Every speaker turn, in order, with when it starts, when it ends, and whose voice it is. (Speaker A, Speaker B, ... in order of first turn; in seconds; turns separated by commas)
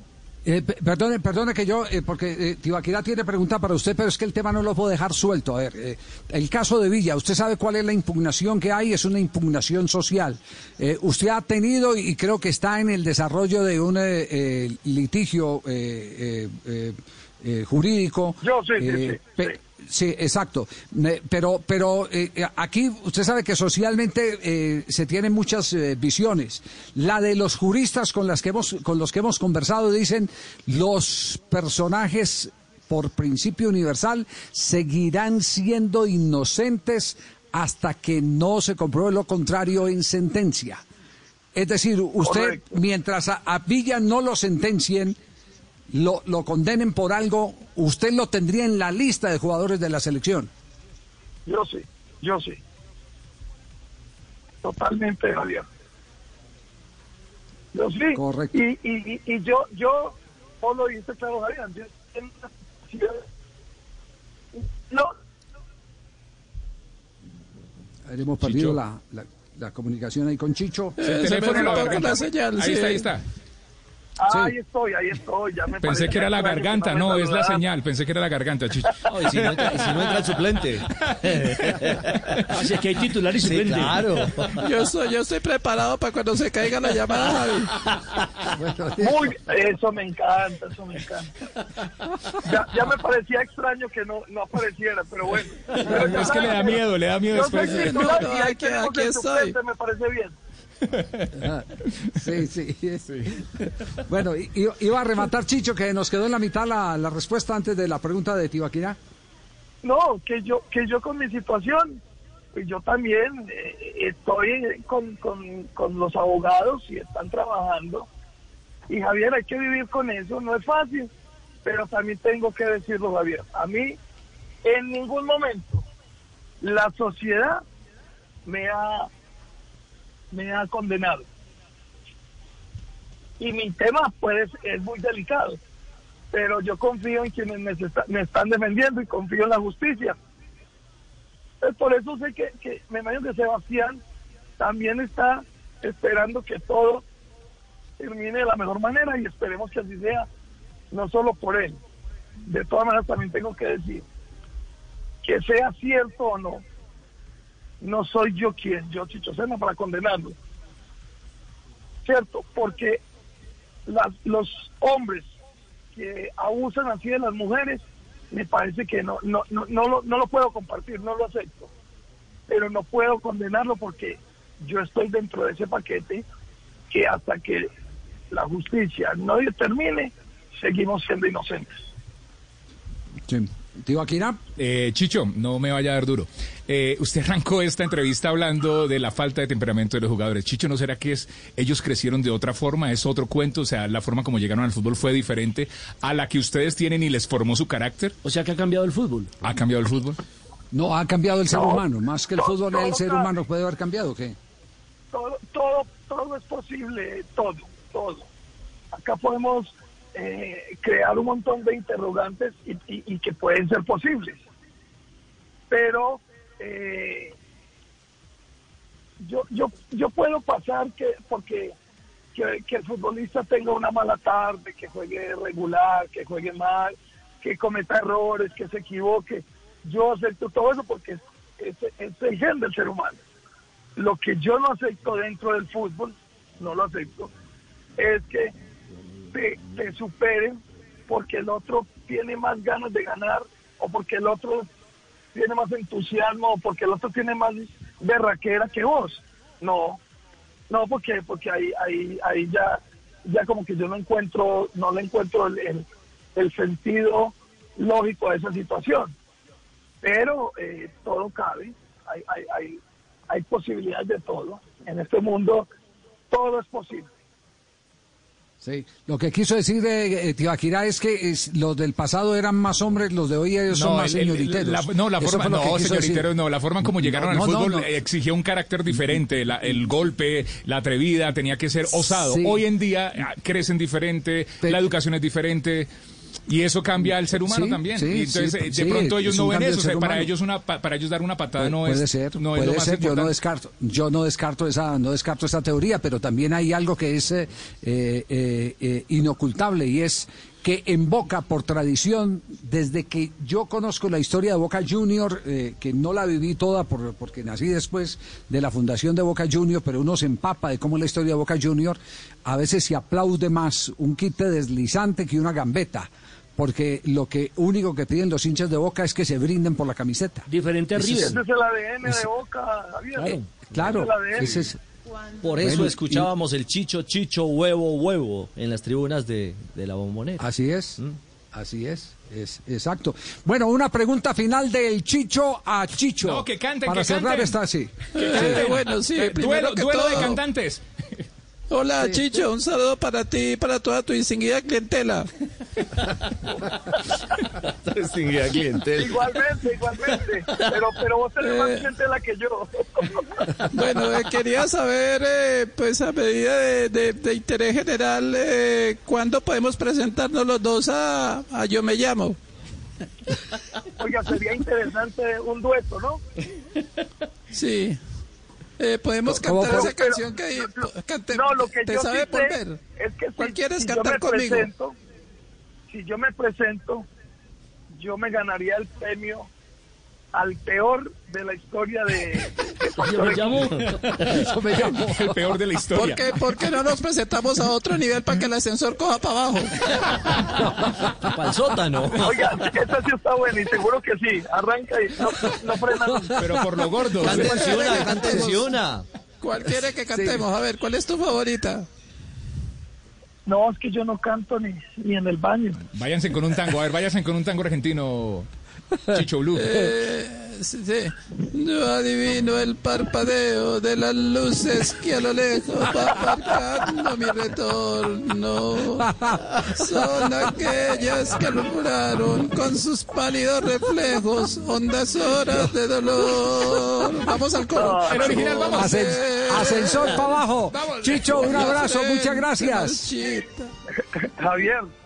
Speaker A: 0.4-40.8, Speaker B: 18.4-19.5, Speaker A: 41.5-45.2, Speaker B: 42.2-42.7, Speaker A: 45.9-50.5, Speaker B: 51.5-52.6, Speaker B: 54.6-55.6, Speaker B: 57.7-63.2, Speaker A: 58.1-58.6, Speaker B: 64.5-65.1, Speaker A: 68.1-71.0, Speaker C: 68.4-68.8, Speaker D: 71.0-73.1, Speaker C: 71.0-73.2, Speaker B: 71.4-72.2, Speaker B: 74.2-77.6, Speaker A: 74.3-74.5, Speaker C: 75.8-80.3, Speaker E: 79.1-82.8, Speaker C: 80.9-82.7, Speaker F: 82.5-84.3, Speaker E: 83.4-84.7, Speaker D: 84.5-87.7, Speaker A: 88.5-89.3, Speaker B: 89.0-91.3, Speaker B: 92.4-96.8, Speaker C: 95.8-98.3, Speaker B: 97.3-100.3, Speaker D: 97.4-99.5, Speaker C: 100.9-101.3, Speaker A: 101.3-103.3, Speaker A: 104.1-109.0, Speaker B: 109.8-112.0, Speaker B: 112.5-118.1, Speaker B: 118.9-121.1, Speaker B: 121.6-124.0, Speaker B: 124.6-125.8, Speaker B: 126.6-127.6, Speaker B: 128.4-129.1, Speaker B: 130.3-131.2, Speaker B: 133.4-135.6, Speaker B: 136.3-140.2, Speaker B: 141.6-144.0, Speaker B: 144.6-147.0, Speaker B: 148.0-150.2, Speaker B: 150.9-151.8, Speaker B: 152.4-154.0, Speaker B: 155.2-156.6, Speaker B: 157.8-160.3, Speaker B: 162.0-163.0, Speaker B: 163.8-165.3, Speaker B: 165.9-171.7, Speaker B: 172.5-176.2, Speaker B: 176.9-177.7, Speaker B: 178.3-181.8, Speaker A: 183.3-184.4, Speaker C: 184.6-198.2, Speaker F: 198.2-199.3, Speaker C: 199.4-200.2, Speaker A: 200.7-204.3, Speaker B: 201.5-203.3, Speaker B: 205.1-208.3, Speaker B: 208.9-214.4, Speaker B: 215.7-217.3, Speaker B: 219.2-221.7, Speaker B: 222.3-233.2, Speaker B: 233.9-237.3, Speaker B: 238.0-238.5, Speaker B: 239.3-240.6, Speaker B: 241.1-244.7, Speaker B: 245.3-250.0, Speaker B: 250.7-259.1, Speaker B: 260.0-265.7, Speaker B: 266.3-267.1, Speaker A: 268.6-277.9, Speaker C: 273.7-285.9, Speaker A: 282.1-282.6, Speaker A: 284.6-284.9, Speaker C: 286.5-293.3, Speaker A: 287.3-290.3, Speaker A: 291.6-320.4, Speaker F: 320.5-321.4, Speaker B: 321.1-324.6, Speaker F: 323.1-323.6, Speaker A: 323.5-324.8, Speaker E: 325.4-330.4, Speaker A: 325.6-326.3, Speaker A: 330.4-331.0, Speaker A: 331.5-338.6, Speaker C: 336.2-337.6, Speaker C: 338.1-340.8, Speaker D: 338.2-340.4, Speaker D: 341.7-345.3, Speaker E: 347.6-349.1, Speaker B: 348.9-353.5, Speaker D: 351.4-351.9, Speaker D: 353.7-362.4, Speaker B: 363.9-366.2, Speaker D: 367.5-368.0, Speaker D: 368.8-372.8, Speaker A: 369.3-369.9, Speaker B: 369.6-374.9, Speaker D: 373.4-374.7, Speaker B: 375.9-377.1, Speaker B: 377.9-379.5, Speaker B: 380.3-383.8, Speaker F: 383.0-384.1, Speaker E: 383.2-383.9, Speaker C: 383.9-386.3, Speaker A: 384.2-385.4, Speaker D: 385.9-389.9, Speaker A: 391.0-391.3, Speaker E: 391.1-392.4, Speaker B: 392.2-396.4, Speaker A: 396.2-397.0, Speaker C: 396.4-397.7, Speaker E: 397.2-399.1, Speaker D: 397.3-398.7, Speaker D: 399.4-401.9, Speaker A: 400.1-400.4, Speaker B: 403.4-405.8, Speaker C: 405.9-408.5, Speaker C: 409.1-409.8, Speaker D: 409.5-433.7, Speaker A: 419.0-419.9, Speaker B: 427.7-428.3, Speaker C: 428.1-428.9, Speaker A: 428.7-433.1, Speaker B: 434.0-434.9